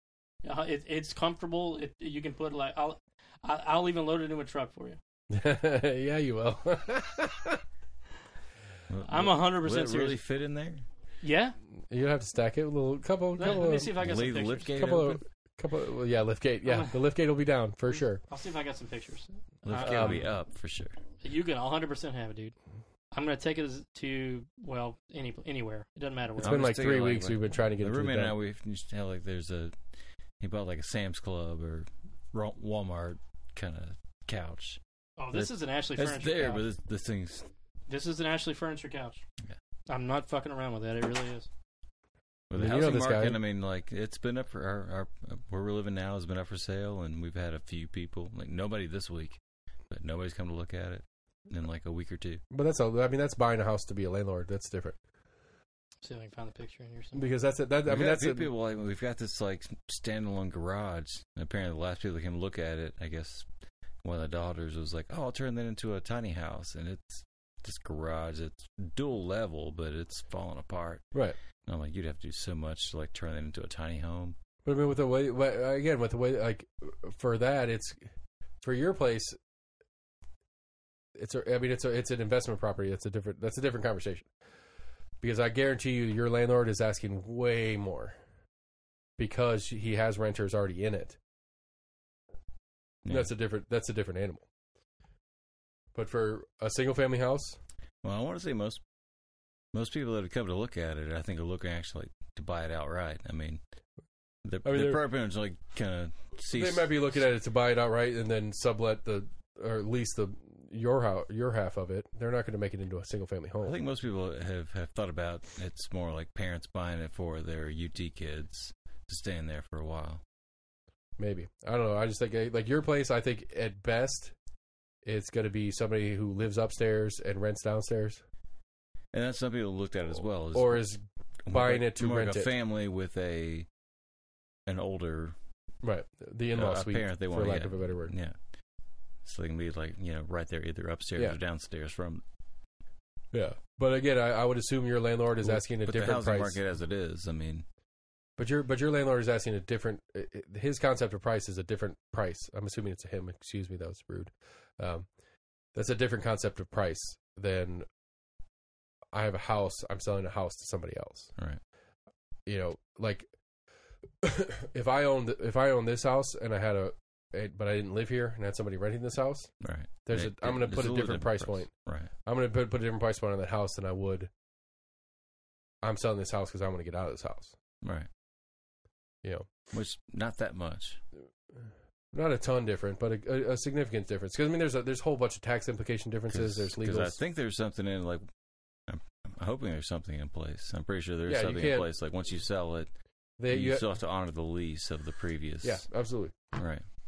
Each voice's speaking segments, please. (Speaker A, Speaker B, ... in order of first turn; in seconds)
Speaker A: 0.4-5.0, 9.1-10.2, 11.2-11.6, 13.4-14.8, 16.6-16.9, 18.2-20.2, 21.2-22.6, 23.1-26.6, 35.2-36.6, 37.9-39.2, 39.9-41.5, 56.0-57.2
Speaker B: 5.3-7.6, 11.9-13.9, 14.7-18.2, 19.7-20.2, 26.4-28.3, 42.5-43.4, 52.5-55.0, 57.1-58.5, 74.7-79.4, 81.2-84.3, 85.2-88.2, 89.2-91.2, 93.1-94.5, 95.9-97.6, 104.6-105.0, 106.5-113.7, 121.2-124.3, 125.0-128.2, 130.5-132.5, 135.8-138.1, 143.3-146.6, 148.4-155.1, 155.7-157.9, 159.1-161.4, 162.4-163.3, 164.2-174.3, 175.8-177.6, 179.2-179.5, 182.1-187.2, 191.3-191.8, 193.4-193.8, 195.6-196.5
Speaker C: 8.9-10.9, 14.0-15.2, 19.6-21.0, 26.4-34.8, 35.3-37.5, 42.5-49.4, 49.9-52.4, 57.9-63.5, 64.0-74.3, 93.0-93.3, 98.0-98.8, 99.7-103.6, 104.4-106.9, 113.6-120.2, 129.1-130.8, 131.4-133.7, 134.7-135.3, 136.5-138.5, 139.2-142.2, 145.4-147.6, 169.6-172.1, 177.8-178.1, 179.7-181.0, 186.3-188.2, 188.9-195.9, 196.5-196.8